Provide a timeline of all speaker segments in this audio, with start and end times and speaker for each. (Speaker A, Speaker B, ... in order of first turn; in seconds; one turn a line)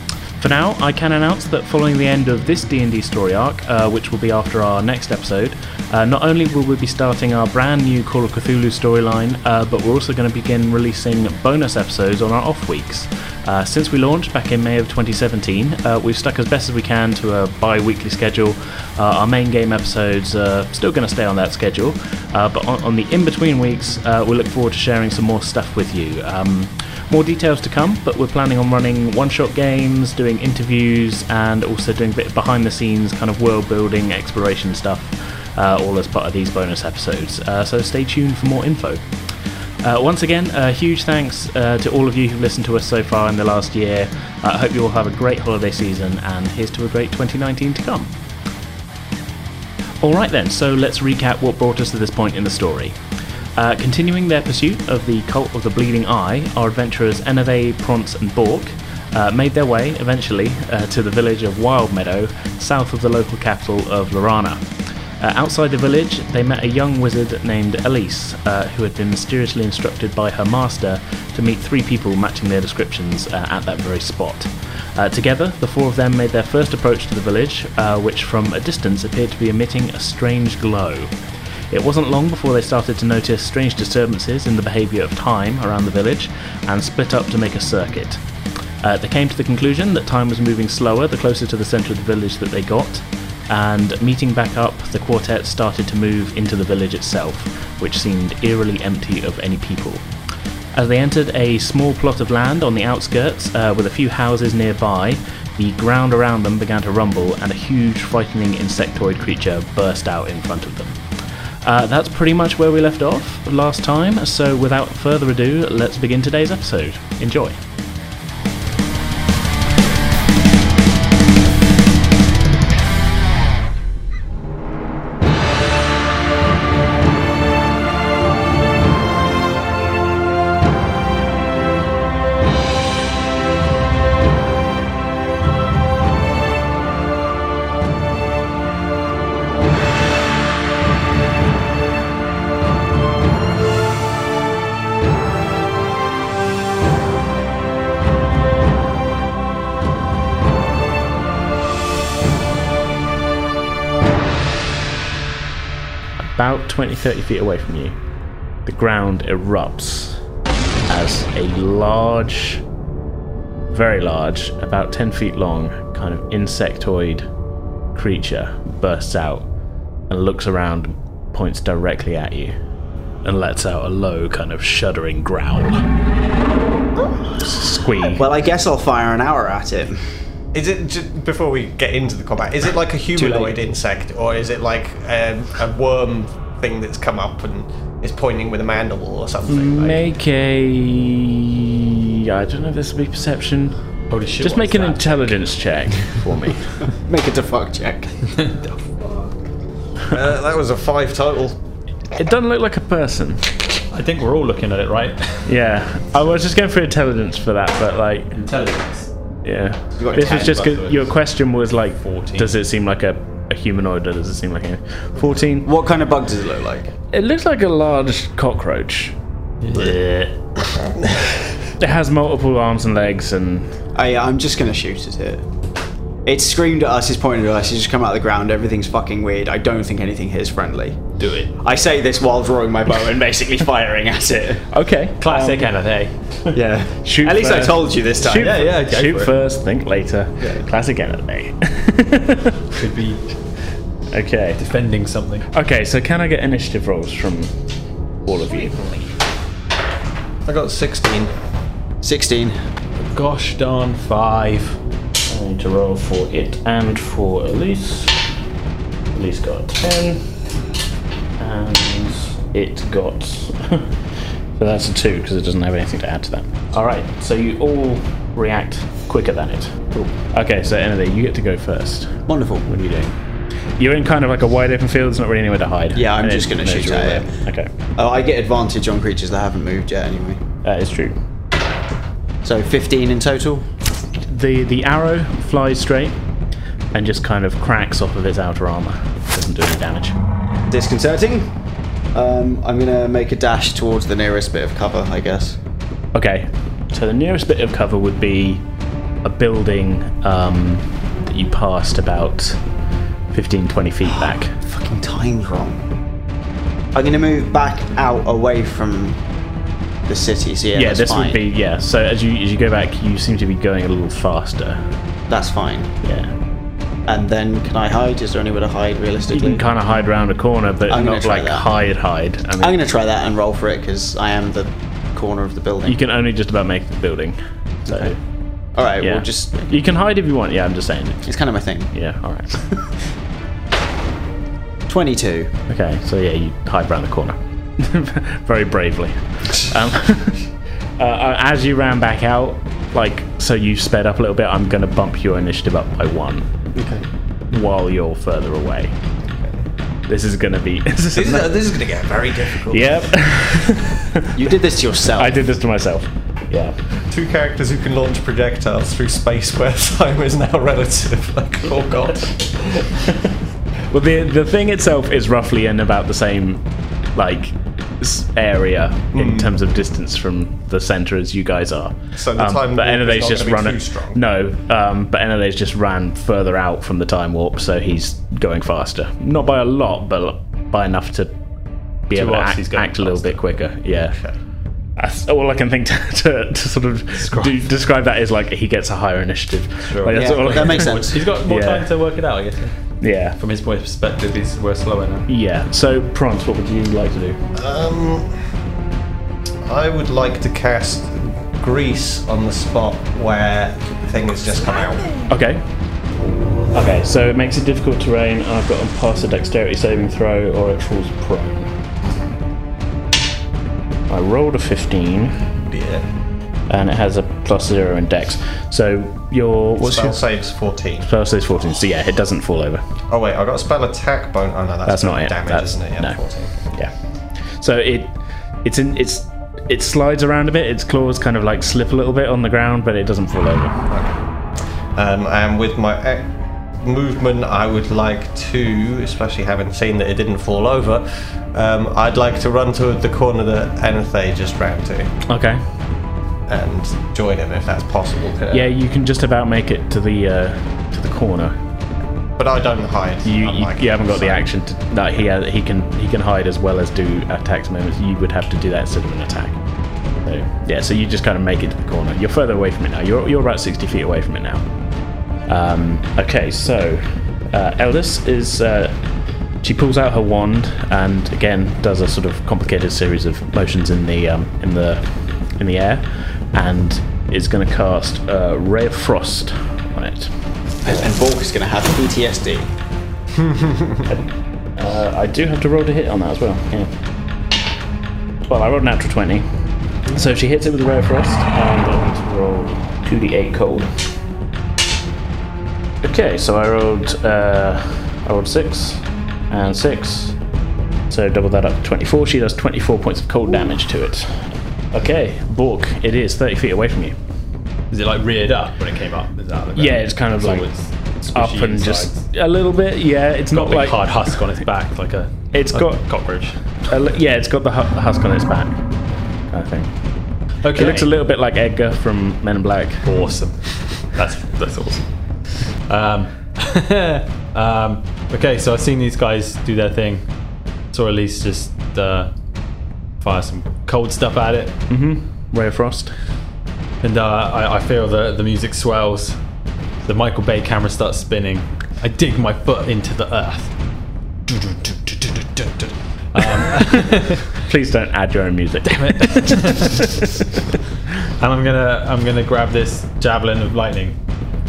Speaker A: 0.4-39.0
Speaker A: 39.8-48.1
Speaker A: 50.0-53.0
Speaker A: 53.6-64.6
Speaker A: 65.2-81.1
Speaker A: 81.7-88.2
Speaker A: 88.8-100.0
Speaker A: 100.7-111.0
Speaker A: 111.6-117.6
Speaker A: 156.2-157.9
Speaker A: 158.7-160.2
Speaker A: 160.9-162.6
Speaker A: 163.7-167.2
Speaker A: 167.9-169.5
Speaker A: 170.1-172.6
Speaker A: 173.2-175.9
Speaker A: 177.4-178.2
Speaker B: 178.0-180.0
Speaker C: 180.5-190.0
Speaker A: 183.2-183.5
Speaker A: 189.5-193.8
Speaker D: 194.1-195.3
Speaker A: 194.4-196.8
Speaker B: 196.8-198.2
Speaker D: 198.2-199.3
Speaker C: 200.1-201.6
Speaker A: 202.1-203.6
Speaker D: 203.9-205.5
Speaker A: 205.4-208.4
Speaker D: 208.3-209.1
Speaker A: 209.4-215.7
Speaker B: 209.9-210.7
Speaker D: 210.1-211.1
Speaker D: 212.0-212.6
Speaker B: 215.6-216.9
Speaker A: 217.1-219.1
Speaker D: 219.6-220.4
Speaker A: 221.8-223.7
Speaker B: 223.9-225.4
Speaker B: 226.2-231.1
Speaker D: 231.2-231.5
Speaker B: 231.6-234.7
Speaker A: 234.7-235.7
Speaker D: 235.2-236.1
Speaker B: 236.5-238.7
Speaker A: 237.0-242.6
Speaker D: 238.3-239.4
Speaker D: 242.8-243.2
Speaker A: 244.1-244.6
Speaker D: 244.6-245.5
Speaker A: 245.5-247.5
Speaker A: 248.2-249.1
Speaker C: 250.4-251.3
Speaker B: 252.0-252.6
Speaker D: 253.0-254.8
Speaker A: 255.3-258.2
Speaker A: 259.1-260.2
Speaker A: 261.4-263.9
Speaker A: 264.6-269.8
Speaker A: 270.3-273.1
Speaker B: 272.3-272.7
Speaker A: 273.8-277.7
Speaker B: 275.9-277.3
Speaker B: 278.0-280.4
Speaker A: 280.6-281.1
Speaker B: 282.4-283.7
Speaker A: 284.3-286.2
Speaker A: 286.9-290.1
Speaker B: 290.7-291.5
Speaker B: 292.1-295.6
Speaker A: 296.1-298.6
Speaker A: 299.2-302.6
Speaker A: 303.3-304.6
Speaker B: 304.1-305.8
Speaker B: 306.9-309.2
Speaker B: 310.1-311.4
Speaker A: 310.8-314.8
Speaker B: 315.3-315.9
Speaker A: 316.0-316.3
Speaker B: 317.1-319.7
Speaker A: 319.3-322.8
Speaker B: 320.9-321.7
Speaker B: 322.6-326.0
Speaker A: 325.9-328.2
Speaker B: 327.9-328.1
Speaker B: 328.8-329.7
Speaker A: 329.0-331.3
Speaker B: 331.2-331.9
Speaker A: 331.9-332.6
Speaker B: 334.9-335.5
Speaker A: 335.7-340.5
Speaker A: 341.0-346.4
Speaker B: 346.8-347.1
Speaker A: 347.5-348.9
Speaker C: 349.3-349.6
Speaker A: 350.1-351.6
Speaker C: 351.1-353.3
Speaker A: 352.6-354.4
Speaker B: 354.3-355.4
Speaker A: 355.1-356.8
Speaker C: 357.1-363.0
Speaker A: 363.9-366.6
Speaker A: 367.1-381.3
Speaker C: 369.1-369.5
Speaker C: 372.1-374.2
Speaker A: 382.1-384.1
Speaker D: 382.1-383.4
Speaker A: 385.0-391.9
Speaker D: 387.2-387.6
Speaker D: 389.9-392.8
Speaker B: 390.1-391.2
Speaker A: 393.0-393.4
Speaker D: 393.4-395.3
Speaker A: 395.3-397.4
Speaker C: 397.5-398.4
Speaker C: 399.6-405.1
Speaker A: 405.3-405.6
Speaker A: 406.7-411.7
Speaker A: 414.1-415.4
Speaker C: 415.6-416.1
Speaker A: 416.7-420.2
Speaker C: 419.8-421.1
Speaker A: 421.0-422.8
Speaker C: 423.1-426.6
Speaker A: 424.9-426.9
Speaker A: 427.6-433.8
Speaker C: 433.9-434.2
Speaker C: 434.9-445.1
Speaker A: 445.3-445.6
Speaker C: 446.5-448.7
Speaker A: 448.5-451.6
Speaker C: 452.4-454.5
Speaker A: 453.2-459.6
Speaker A: 460.2-464.6
Speaker A: 465.5-469.0
Speaker A: 469.6-480.3
Speaker B: 480.8-482.7
Speaker C: 483.4-484.0
Speaker A: 484.1-486.9
Speaker A: 488.5-489.5
Speaker A: 490.1-493.9
Speaker A: 496.0-500.4
Speaker A: 501.1-507.1
Speaker D: 507.9-512.2
Speaker A: 509.8-510.7
Speaker A: 511.3-514.4
Speaker D: 513.5-516.5
Speaker A: 515.5-516.0
Speaker A: 516.9-518.8
Speaker A: 519.5-519.9
Speaker D: 520.6-521.1
Speaker A: 520.7-523.2
Speaker D: 523.0-530.2
Speaker D: 530.9-532.3
Speaker D: 533.2-534.8
Speaker A: 534.9-536.1
Speaker D: 537.0-539.4
Speaker D: 540.0-543.7
Speaker D: 544.5-547.6
Speaker A: 546.9-550.8
Speaker D: 548.9-550.4
Speaker D: 551.4-554.1